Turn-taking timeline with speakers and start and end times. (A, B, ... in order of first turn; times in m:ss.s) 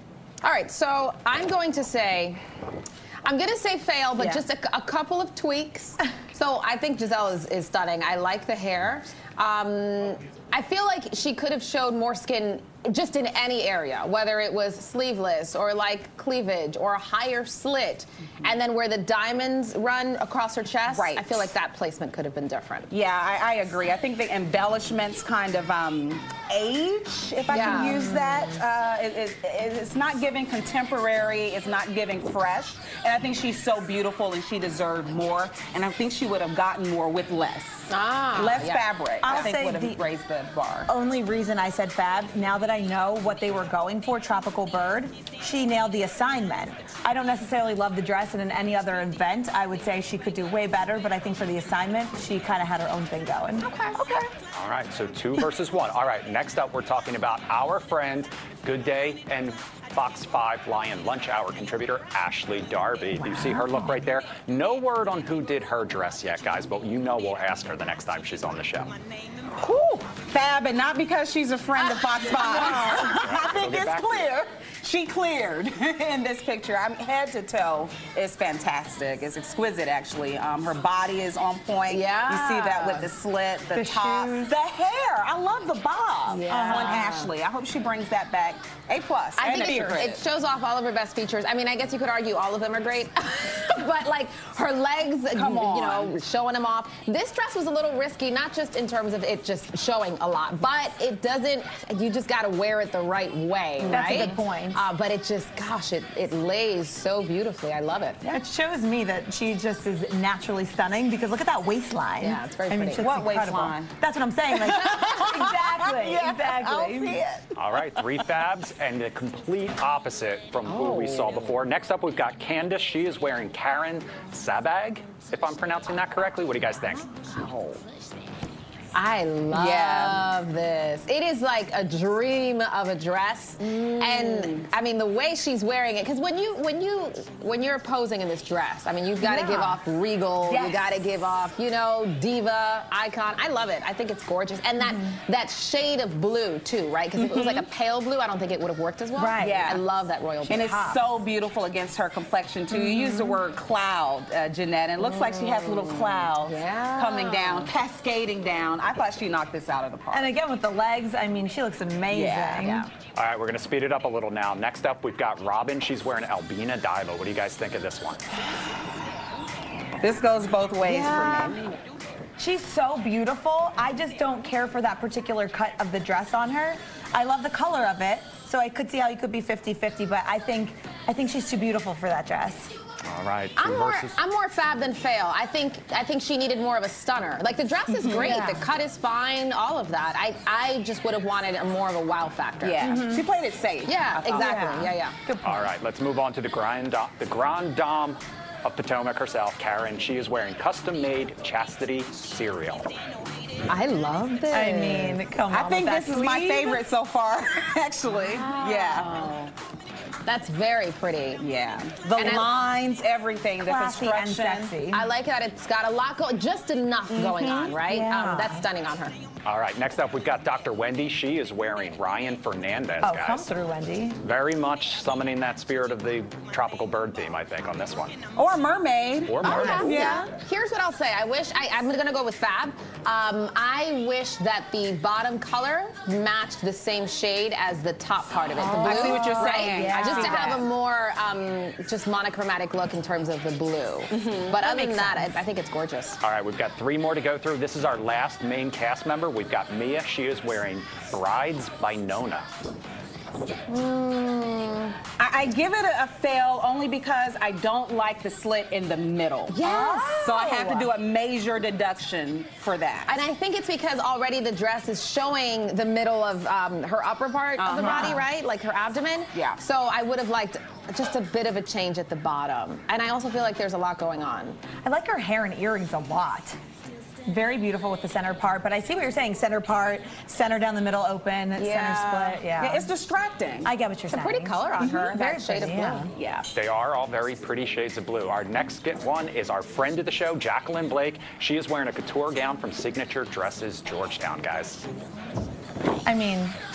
0:00.4-0:02.4 A
0:03.2-0:22.9 A
0:04.2-0:04.4 B
0:20.9-0:21.5 C
0:22.9-0:40.9 C
0:27.5-0:28.2 A
0:37.9-0:38.9 A
0:39.2-0:40.0 B
0:40.9-0:54.3 B
0:53.6-0:54.0 A
0:54.5-1:09.0 D
1:03.3-1:03.7 B
1:09.6-1:30.2 C
1:11.8-1:13.2 A
1:13.2-1:14.3 D
1:21.9-1:23.1 A
1:23.7-1:24.5 B
1:26.3-1:27.3 A
1:26.5-1:27.2 B
1:29.4-1:48.2 A
1:35.3-1:36.2 C
1:43.8-1:44.4 C
1:43.9-1:44.8 B
1:48.2-1:57.4 B
1:52.2-1:53.1 A
1:53.0-1:53.9 C
1:54.5-1:57.3 C
1:57.6-2:07.1 D
2:00.7-2:01.5 A
2:07.3-2:07.8 A
2:08.9-2:30.7 A
2:09.5-2:10.3 C
2:13.6-2:14.7 C
2:19.2-2:19.8 B
2:20.5-2:20.9 C
2:27.2-2:27.6 C
2:29.2-2:29.7 B
2:29.4-2:29.8 C
2:30.5-2:40.3 C
2:30.5-2:31.0 B
2:35.0-2:37.7 A
2:40.1-2:42.9 B
2:42.1-2:42.8 C
2:43.2-2:48.2 D
2:50.0-2:51.7 C
2:50.9-2:51.5 B
2:52.4-3:02.7 B
3:03.0-3:04.2 D
3:03.6-3:12.9 A
3:07.9-3:08.6 B
3:12.6-3:14.6 C
3:12.8-3:13.3 B
3:13.8-3:15.2 A
3:14.3-3:15.7 B
3:15.4-3:22.9 D
3:23.7-3:25.2 A
3:24.5-3:26.8 B
3:25.5-3:29.3 C
3:28.2-3:29.5 A
3:30.2-3:31.4 A
3:31.4-3:34.7 C
3:32.1-3:32.7 B
3:32.2-3:32.5 A
3:33.6-3:35.1 B
3:34.9-3:39.2 A
3:37.1-3:37.8 C
3:37.9-3:38.6 B
3:39.4-3:43.5 D
3:43.0-3:44.2 B
3:44.2-3:48.2 D
3:48.4-3:50.2 C
3:49.2-3:49.9 D
3:49.4-3:50.3 B
3:49.4-4:06.2 A
3:58.5-4:00.6 B
3:58.8-4:00.6 C
4:04.1-4:04.5 C
4:04.6-4:05.4 B
4:06.2-4:12.5 D
4:13.7-4:15.0 A
4:15.2-4:19.6 C
4:19.5-4:20.3 A
4:19.6-4:20.9 B
4:20.2-4:23.2 C
4:23.1-4:34.6 A
4:27.6-4:28.2 C
4:27.8-4:28.2 B
4:29.3-4:29.6 C
4:34.8-4:36.6 B
4:37.3-4:42.9 B
4:41.6-4:42.4 A
4:42.6-4:43.7 C
4:43.6-4:46.1 B
4:44.1-4:46.1 A
4:46.1-4:46.5 C
4:46.5-4:54.8 D
4:56.0-4:56.6 B